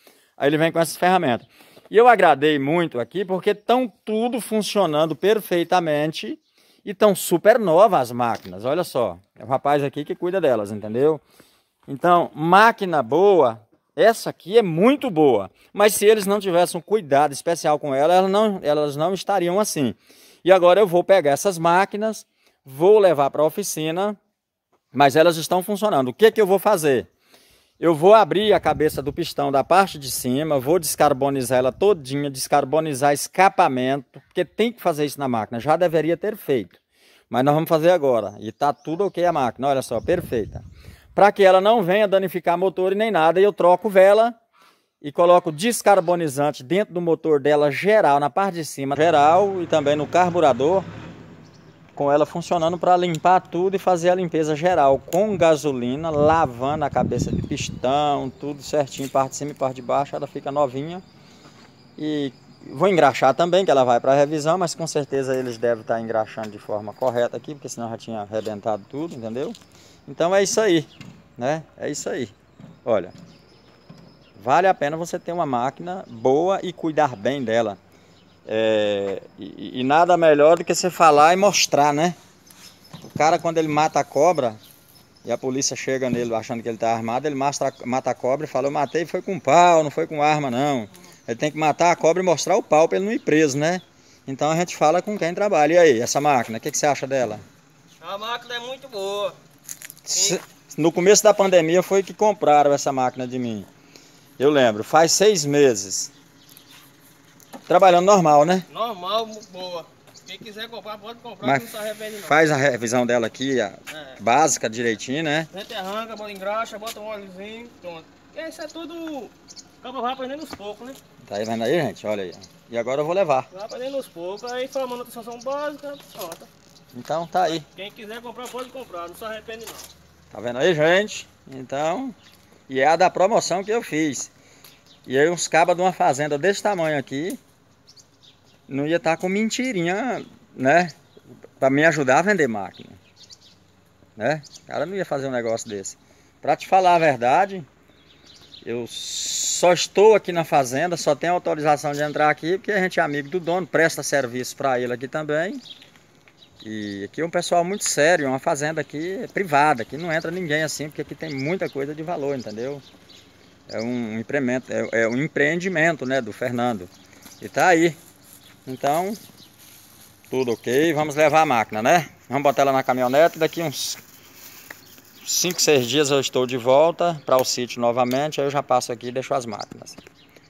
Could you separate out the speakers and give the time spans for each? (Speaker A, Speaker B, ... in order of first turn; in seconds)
Speaker A: 0.4-11.2, 11.9-24.2, 24.9-27.1, 27.8-36.8, 37.3-40.6, 41.1-44.4, 45.0-50.9, 51.9-61.0, 62.0-69.5, 70.1-72.3, 72.8-73.1, 74.3-77.8, 78.5-82.2, 83.1-84.6, 85.2-97.4, 100.0-103.7, 104.4-106.1, 107.7-108.7, 111.4-111.7, 112.2-115.5, 121.2-123.5, 126.9-127.6, 130.3-132.1, 132.7-134.3, 135.1-137.4, 138.7-140.9, 141.6-143.0, 144.2-147.7, 148.6-155.6, 156.6-162.8, 163.7-168.0, 168.7-169.2, 170.3-174.0, 175.2-180.0
Speaker B: 98.0-99.4, 100.1-100.4, 108.7-112.4, 115.5-121.0, 123.5-126.5, 127.5-129.9